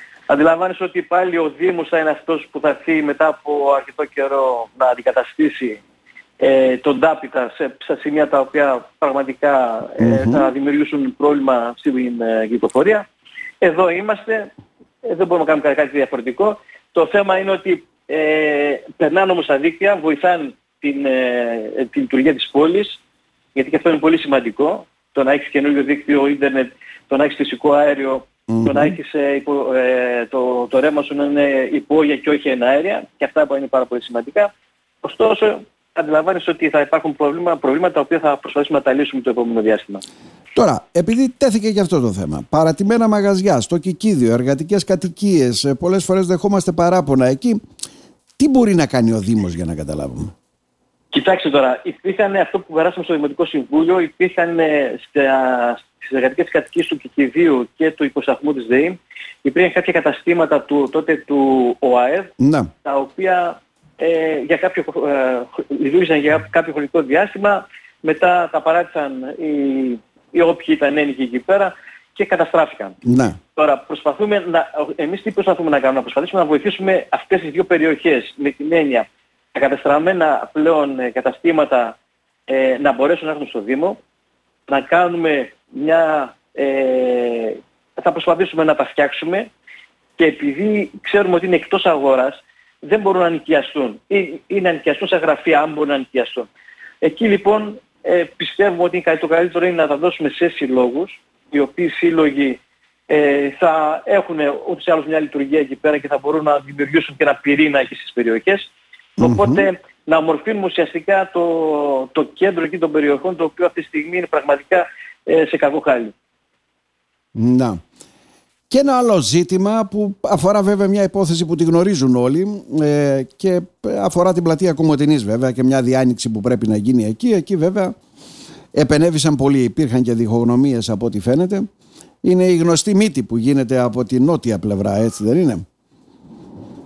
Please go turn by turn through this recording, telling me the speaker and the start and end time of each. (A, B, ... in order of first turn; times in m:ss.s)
0:00.3-0:05.8 A
0:06.4-0:13.0 A
0:10.0-0:10.5 B
0:13.6-0:14.5 A
0:15.0-0:23.0 A
0:23.6-0:34.5 A
0:28.5-0:29.0 B
0:35.0-0:40.0 A
0:40.6-0:47.6 B
0:48.4-0:50.3 B
0:51.1-1:02.3 A
1:02.4-1:02.7 B
1:02.8-1:13.0 A
1:13.0-1:13.4 B
1:13.6-1:22.0 A
1:22.5-1:24.0 A
1:24.7-1:29.5 A
1:30.2-1:36.5 A
1:37.0-1:56.1 A
1:49.2-1:49.7 B
1:57.4-1:57.8 B
1:58.7-2:07.9 B
2:08.7-2:11.6 B
2:12.2-2:15.6 B